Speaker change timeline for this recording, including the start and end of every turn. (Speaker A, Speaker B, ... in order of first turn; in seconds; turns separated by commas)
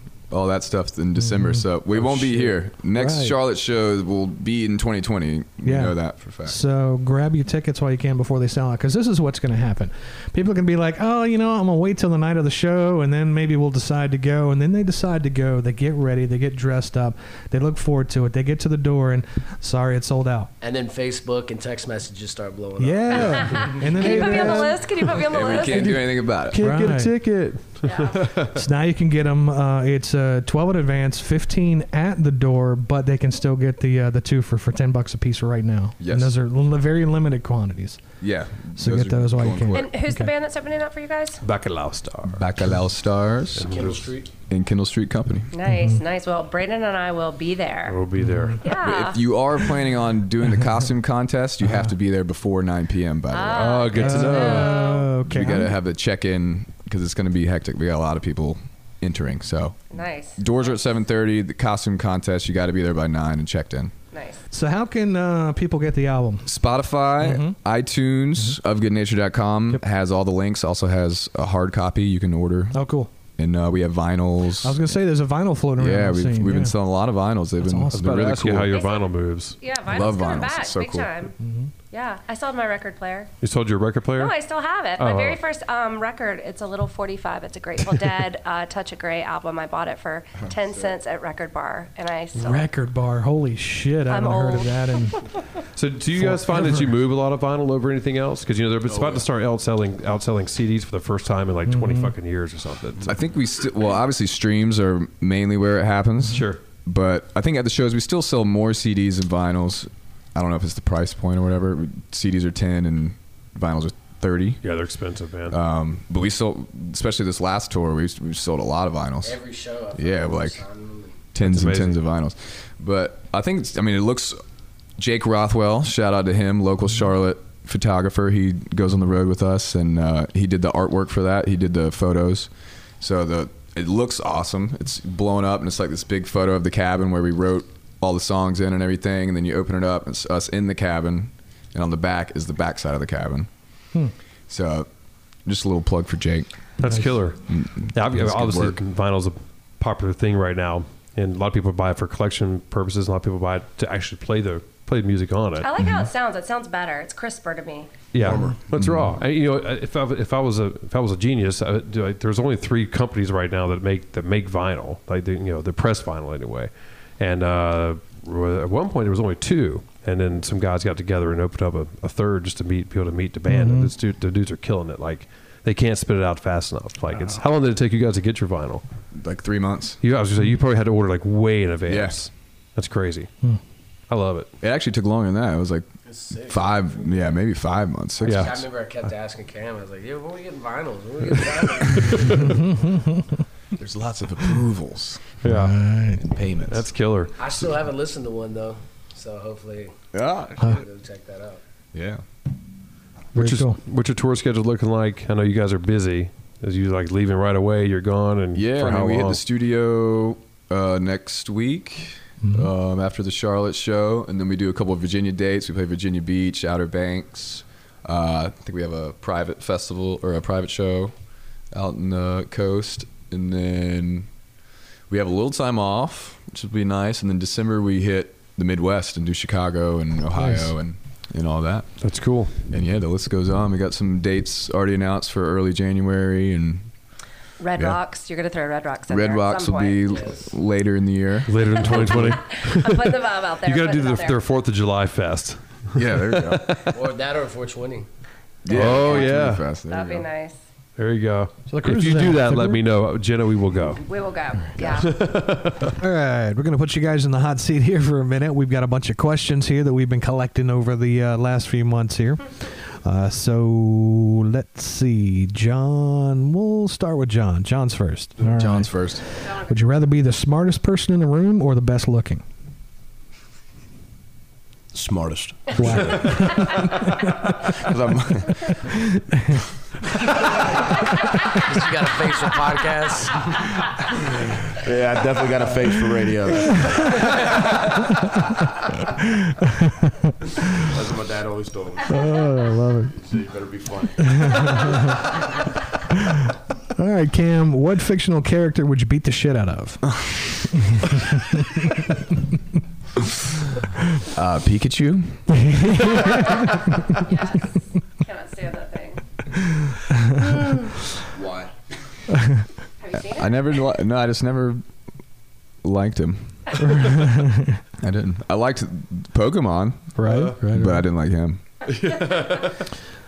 Speaker A: 0.3-6.6, Speaker B: 1.2-3.4, Speaker B: 5.6-20.5, Speaker C: 20.6-23.7, Speaker B: 22.8-24.8, Speaker D: 23.1-25.9, Speaker A: 25.1-26.6, Speaker E: 25.6-28.6, Speaker B: 26.5-27.2, Speaker D: 27.8-28.3, Speaker B: 28.5-38.0, Speaker A: 36.0-36.3, Speaker A: 38.2-39.9, Speaker B: 38.8-40.3, Speaker D: 39.7-41.4, Speaker E: 41.4-42.5, Speaker A: 42.3-43.8, Speaker E: 43.6-44.1, Speaker C: 43.7-44.2, Speaker A: 44.5-45.5, Speaker D: 45.5-48.0, Speaker B: 45.7-46.0, Speaker E: 47.9-48.6, Speaker B: 48.2-48.6, Speaker D: 48.6-49.2, Speaker A: 48.8-54.5, Speaker D: 53.3-55.1, Speaker E: 53.5-54.7, Speaker B: 54.0-55.7, Speaker A: 55.2-59.8, Speaker D: 59.9-60.7, Speaker A: 60.4-63.9, Speaker D: 64.1-64.4, Speaker B: 64.5-66.5, Speaker A: 66.5-72.8, Speaker B: 67.2-67.5, Speaker B: 72.7-73.1, Speaker A: 73.4-74.8, Speaker B: 74.6-76.7, Speaker A: 75.8-78.7, Speaker B: 77.6-78.4, Speaker E: 77.9-79.6, Speaker D: 78.7-81.3, Speaker A: 79.9-81.1, Speaker B: 81.4-81.7, Speaker D: 81.9-83.3, Speaker E: 83.4-84.3, Speaker D: 84.2-92.7, Speaker E: 85.0-85.4, Speaker B: 92.3-95.3, Speaker D: 94.1-94.7, Speaker E: 95.7-103.2, Speaker B: 96.2-96.9, Speaker F: 98.9-99.2, Speaker B: 101.7-102.1, Speaker A: 103.0-114.6, Speaker E: 106.3-106.6, Speaker E: 114.6-115.6, Speaker A: 115.5-119.4, Speaker C: 119.2-121.2, Speaker A: 120.0-120.6, Speaker A: 121.3-124.4, Speaker E: 121.4-122.0, Speaker A: 125.0-143.5, Speaker A: 144.5-144.9, Speaker A: 145.4-146.5, Speaker E: 146.8-147.4, Speaker A: 147.5-148.8, Speaker E: 147.9-155.7, Speaker D: 155.6-157.9, Speaker E: 158.1-178.8, Speaker F: 158.2-158.6, Speaker A: 158.8-159.1, Speaker B: 173.5-173.9, Speaker A: 179.1-180.0, Speaker E: 180.0-183.3, Speaker A: 181.9-182.2, Speaker E: 184.1-184.5, Speaker A: 184.6-185.9, Speaker C: 186.1-187.2, Speaker A: 186.4-188.6, Speaker E: 188.2-188.6, Speaker C: 188.2-192.5, Speaker B: 192.4-193.2, Speaker A: 193.8-195.4, Speaker E: 195.4-195.8, Speaker B: 195.4-196.2, Speaker A: 196.2-196.8, Speaker E: 196.7-197.3, Speaker C: 197.4-199.9, Speaker A: 200.1-200.7, Speaker C: 200.6-201.6, Speaker A: 201.9-202.2, Speaker E: 203.3-209.4, Speaker B: 203.3-203.8, Speaker A: 208.5-221.1, Speaker B: 212.4-212.7, Speaker A: 221.7-224.3, Speaker A: 225.1-231.9, Speaker E: 232.0-232.5, Speaker A: 232.7-236.9, Speaker D: 237.6-240.2, Speaker A: 239.1-242.4, Speaker C: 240.1-240.5, Speaker E: 241.5-246.8, Speaker D: 241.9-244.4, Speaker A: 245.9-246.8, Speaker C: 246.8-248.1, Speaker A: 248.6-250.2, Speaker E: 248.7-249.6, Speaker D: 249.9-250.6, Speaker E: 251.0-254.0, Speaker B: 251.7-252.8, Speaker D: 254.0-255.1, Speaker E: 254.8-255.9, Speaker B: 255.9-272.4, Speaker A: 268.4-269.2, Speaker D: 269.4-269.8, Speaker F: 274.9-276.9, Speaker B: 275.8-276.9, Speaker F: 277.7-278.7, Speaker B: 278.9-279.6, Speaker C: 281.6-283.7, Speaker F: 284.7-287.4, Speaker B: 289.6-289.9, Speaker F: 290.9-292.4, Speaker B: 292.1-293.1, Speaker F: 293.1-294.8, Speaker B: 294.3-295.2, Speaker B: 296.9-300.1, Speaker B: 300.9-302.0, Speaker A: 304.3-305.5, Speaker B: 305.6-306.7, Speaker D: 306.2-309.2, Speaker F: 311.3-311.7, Speaker D: 313.0-313.7, Speaker A: 313.1-314.8, Speaker A: 315.8-316.7, Speaker B: 316.8-317.8, Speaker A: 318.0-321.6, Speaker B: 320.2-321.0, Speaker E: 320.2-320.6, Speaker E: 321.9-322.8